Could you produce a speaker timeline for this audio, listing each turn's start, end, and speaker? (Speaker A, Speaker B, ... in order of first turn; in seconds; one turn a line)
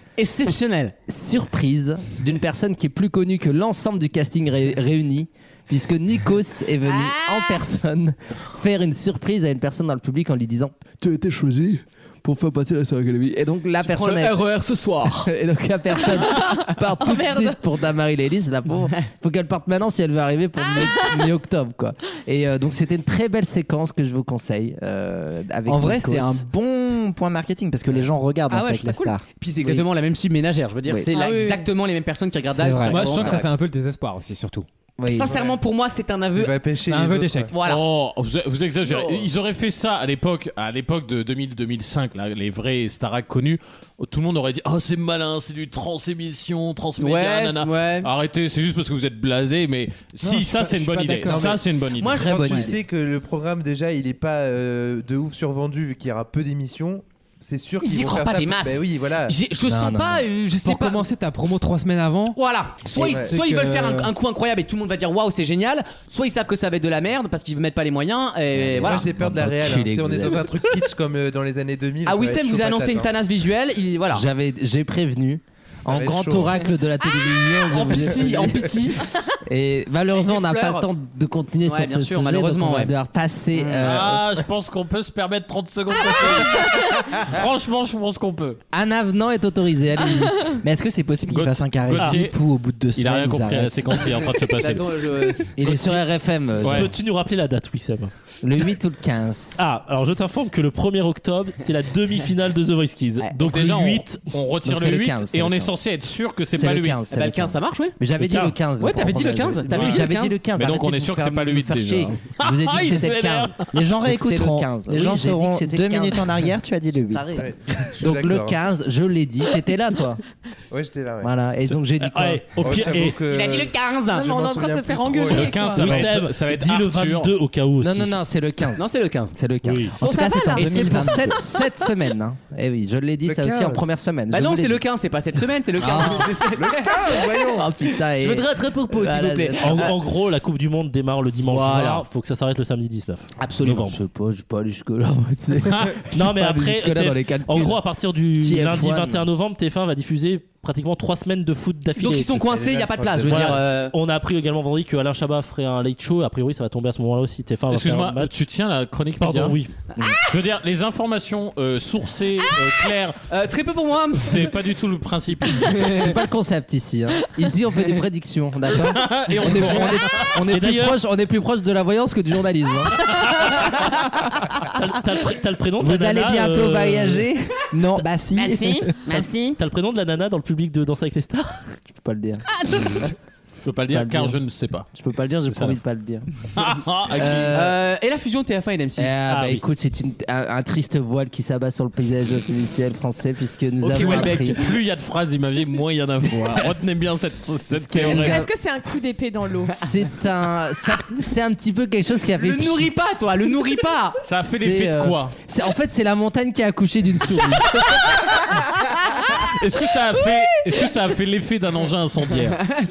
Speaker A: 0.2-0.9
Speaker B: 1.1-14.4
Speaker A: 6.8-7.5
Speaker A: 13.8-15.3
Speaker B: 15.2-26.5
Speaker C: 16.1-17.6
Speaker C: 20.8-21.3
Speaker D: 25.7-29.8
Speaker C: 28.5-29.2
Speaker A: 29.4-33.5
Speaker D: 30.9-31.1
Speaker C: 31.1-31.7
Speaker D: 32.5-33.3
Speaker E: 32.8-34.7
Speaker B: 35.0-35.4
Speaker A: 35.1-36.6
Speaker F: 35.2-35.6
Speaker F: 36.3-37.5
Speaker E: 36.9-37.5
Speaker A: 37.5-37.9
Speaker G: 37.6-52.2
Speaker A: 38.8-39.3
Speaker A: 47.0-48.1
Speaker E: 50.2-51.5
Speaker F: 51.3-59.4
Speaker A: 52.0-52.8
Speaker B: 52.2-52.8
Speaker A: 57.8-61.0
Speaker B: 59.7-60.3
Speaker E: 60.6-62.4
Speaker A: 62.4-69.1
Speaker E: 63.0-64.1
Speaker F: 63.0-63.4
Speaker B: 68.5-70.5
Speaker F: 68.8-73.1
Speaker A: 72.0-74.3
Speaker B: 74.1-78.7
Speaker F: 75.8-76.8
Speaker A: 77.7-79.1
Speaker F: 77.8-78.7
Speaker B: 79.5-84.3
Speaker A: 80.1-80.9
Speaker A: 81.7-82.9
Speaker A: 83.5-84.0
Speaker G: 83.8-88.6
Speaker B: 88.7-90.6
Speaker D: 90.6-94.0
Speaker G: 91.3-92.3
Speaker H: 92.0-92.2
Speaker G: 93.0-94.9
Speaker A: 94.6-95.9
Speaker B: 95.6-96.9
Speaker G: 96.6-96.9
Speaker H: 96.6-98.1
Speaker B: 98.4-99.6
Speaker H: 99.6-104.2
Speaker G: 103.4-107.0
Speaker B: 104.6-105.7
Speaker B: 106.5-116.3
Speaker A: 107.1-108.0
Speaker A: 108.8-110.4
Speaker G: 109.7-113.7
Speaker D: 113.7-117.5
Speaker B: 117.1-120.2
Speaker F: 117.3-118.6
Speaker F: 120.7-121.3
Speaker B: 121.2-122.5
Speaker H: 122.0-123.2
Speaker F: 122.6-126.0
Speaker A: 123.3-124.4
Speaker C: 124.1-126.1
Speaker G: 125.3-127.3
Speaker H: 125.7-128.2
Speaker B: 127.8-134.8
Speaker A: 128.8-129.4
Speaker H: 129.6-130.0
Speaker D: 130.0-131.4
Speaker C: 130.1-130.8
Speaker A: 130.1-131.0
Speaker F: 133.2-133.9
Speaker A: 134.3-137.2
Speaker B: 135.8-139.7
Speaker F: 136.6-137.7
Speaker A: 138.2-140.0
Speaker H: 139.6-144.0
Speaker A: 141.4-142.1
Speaker A: 143.4-143.9
Speaker B: 143.7-147.8
Speaker G: 145.7-146.1
Speaker H: 146.1-152.5
Speaker B: 148.4-149.2
Speaker A: 152.0-153.9
Speaker F: 152.4-153.6
Speaker H: 153.2-158.4
Speaker G: 157.7-159.6
Speaker H: 159.2-159.7
Speaker G: 160.2-163.2
Speaker A: 163.3-164.4
Speaker G: 164.2-166.0
Speaker B: 165.9-173.1
Speaker G: 168.8-170.3
Speaker H: 170.4-171.0
Speaker H: 173.3-177.3
Speaker D: 175.8-179.3
Speaker A: 178.3-179.6
Speaker H: 179.6-181.8
Speaker B: 181.8-182.4
Speaker A: 182.6-182.9
Speaker G: 183.6-184.9
Speaker B: 183.9-184.4
Speaker B: 184.9-186.3
Speaker G: 185.5-185.8
Speaker G: 186.6-187.5
Speaker B: 187.2-187.8
Speaker A: 187.5-189.2
Speaker B: 189.0-194.6
Speaker H: 189.3-189.6
Speaker A: 193.8-194.7
Speaker G: 193.9-198.4
Speaker B: 197.7-198.5
Speaker C: 198.0-199.8
Speaker B: 199.8-202.9
Speaker A: 202.4-204.2
Speaker G: 204.2-205.3
Speaker B: 204.4-208.5
Speaker G: 209.4-212.6